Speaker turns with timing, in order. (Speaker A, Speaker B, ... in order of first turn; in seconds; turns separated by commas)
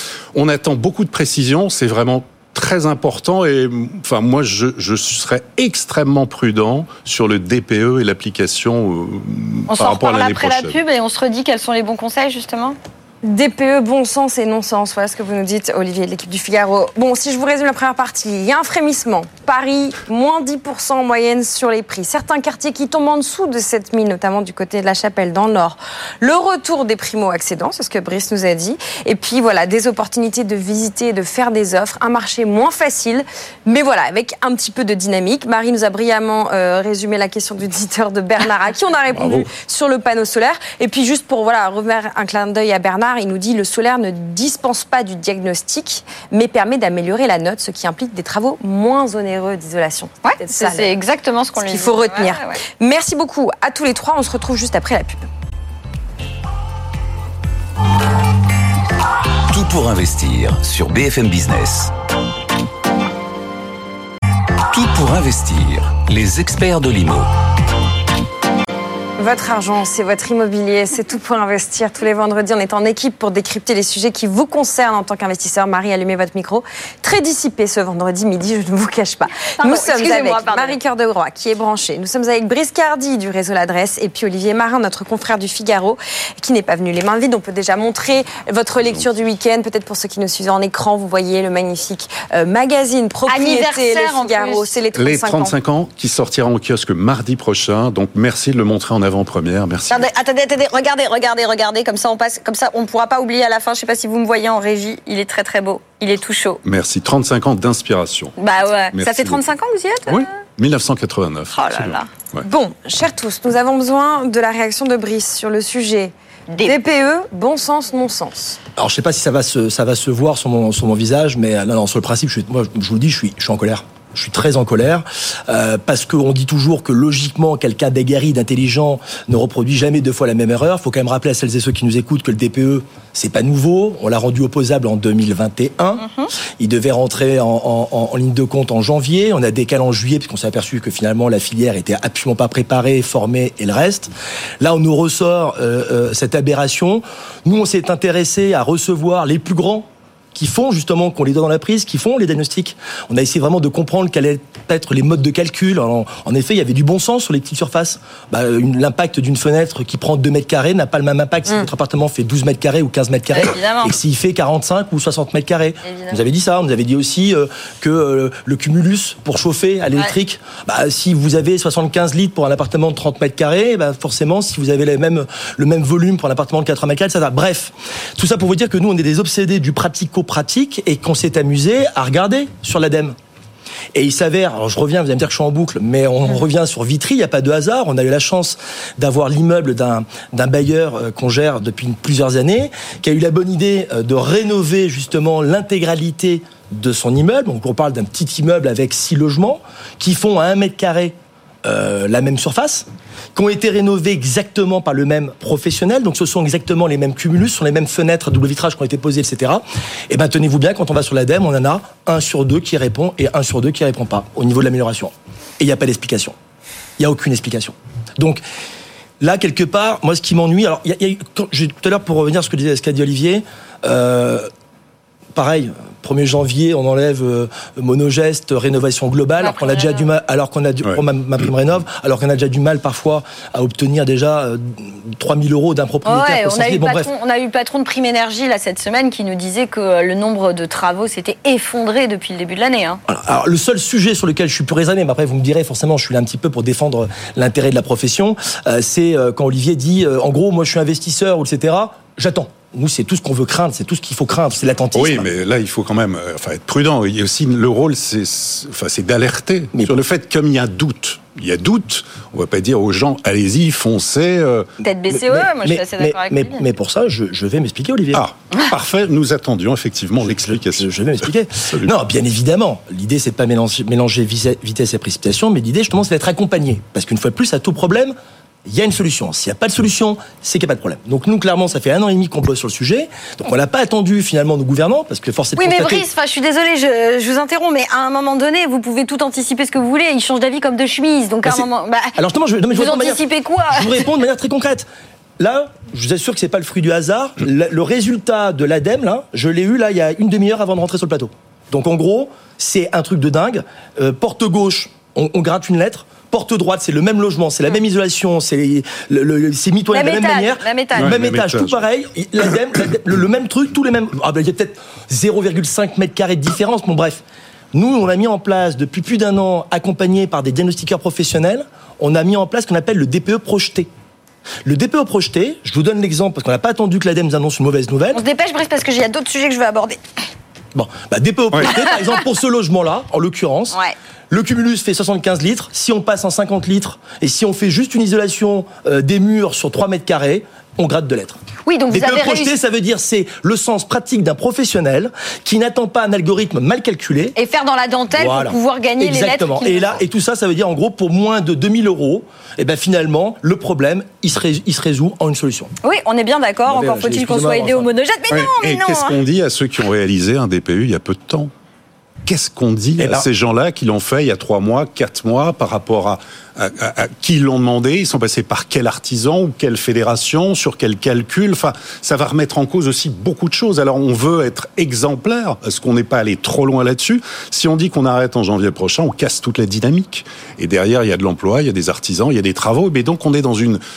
Speaker A: 0.3-10.8, Speaker B: 9.7-12.8, Speaker C: 13.2-50.9, Speaker B: 50.2-52.6, Speaker C: 51.6-55.2, Speaker D: 59.5-61.9, Speaker D: 64.7-67.3, Speaker C: 69.2-95.5, Speaker B: 79.6-80.8, Speaker B: 93.3-94.7, Speaker A: 94.9-100.1, Speaker B: 99.9-106.6, Speaker A: 106.6-108.3, Speaker B: 108.4-110.3, Speaker A: 108.9-109.4, Speaker A: 110.1-112.4, Speaker B: 111.5-112.1, Speaker C: 112.4-118.6, Speaker B: 116.5-116.7, Speaker E: 118.8-136.1, Speaker B: 136.0-136.3, Speaker E: 136.6-183.2, Speaker B: 163.3-163.9, Speaker B: 165.8-166.2, Speaker E: 183.9-216.3, Speaker E: 217.0-218.4, Speaker E: 219.2-224.5, Speaker E: 225.3-237.1, Speaker B: 229.4-230.1, Speaker B: 236.0-243.0, Speaker E: 243.1-255.3, Speaker A: 254.9-264.7, Speaker E: 259.7-260.0, Speaker B: 264.8-266.6, Speaker E: 265.1-268.2, Speaker A: 268.1-270.9, Speaker E: 270.2-278.1, Speaker E: 278.6-286.0, Speaker B: 285.6-292.2, Speaker E: 291.4-294.9, Speaker B: 292.7-294.1, Speaker E: 295.4-317.2, Speaker B: 309.9-311.1, Speaker A: 311.0-311.8, Speaker E: 317.7-323.9, Speaker E: 324.6-328.2, Speaker B: 328.1-330.0, Speaker E: 330.7-333.8, Speaker E: 334.3-347.4, Speaker B: 341.6-342.6, Speaker B: 347.4-350.0, Speaker E: 348.1-355.7, Speaker B: 355.8-359.2, Speaker E: 356.7-357.9, Speaker A: 358.3-361.5, Speaker A: 362.2-383.8, Speaker E: 363.0-363.3